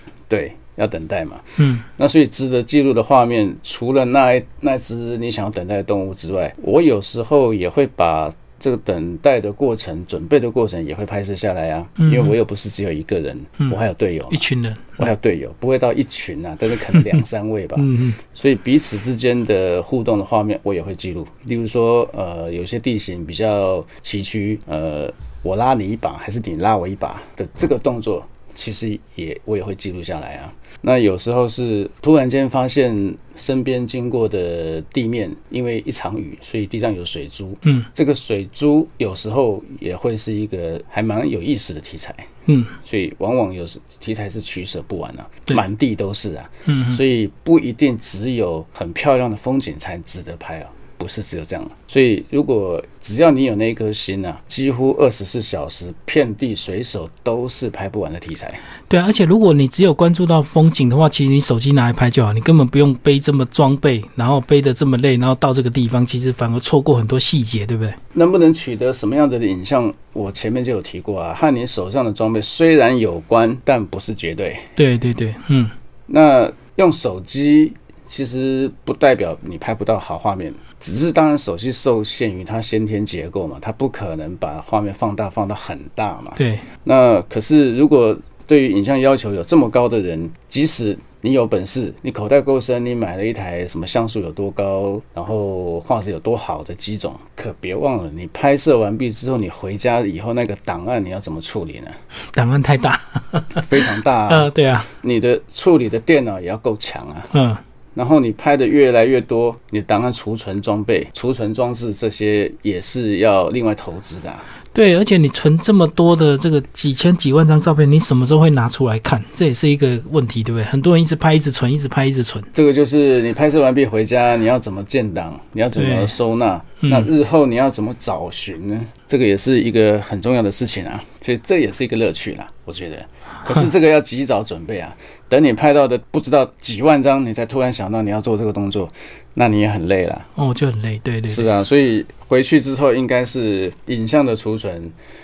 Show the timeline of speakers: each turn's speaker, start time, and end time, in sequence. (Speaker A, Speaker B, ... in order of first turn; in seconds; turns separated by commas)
Speaker A: 0.3-14.4, Speaker B: 1.6-1.9, Speaker B: 12.0-12.3, Speaker B: 14.3-15.0, Speaker A: 15.0-42.3, Speaker B: 17.8-18.2, Speaker B: 42.5-42.8, Speaker A: 42.8-58.6, Speaker B: 46.7-47.0, Speaker B: 58.9-68.0, Speaker A: 68.1-74.7, Speaker B: 74.8-75.7, Speaker A: 76.1-102.0, Speaker B: 86.4-86.7, Speaker B: 102.3-104.9, Speaker A: 103.6-104.5, Speaker A: 105.0-107.3, Speaker B: 107.3-107.6, Speaker A: 108.0-114.5, Speaker B: 114.7-122.5, Speaker A: 122.5-140.3, Speaker B: 125.8-126.2, Speaker B: 126.8-127.1, Speaker B: 140.4-141.5, Speaker A: 141.3-144.9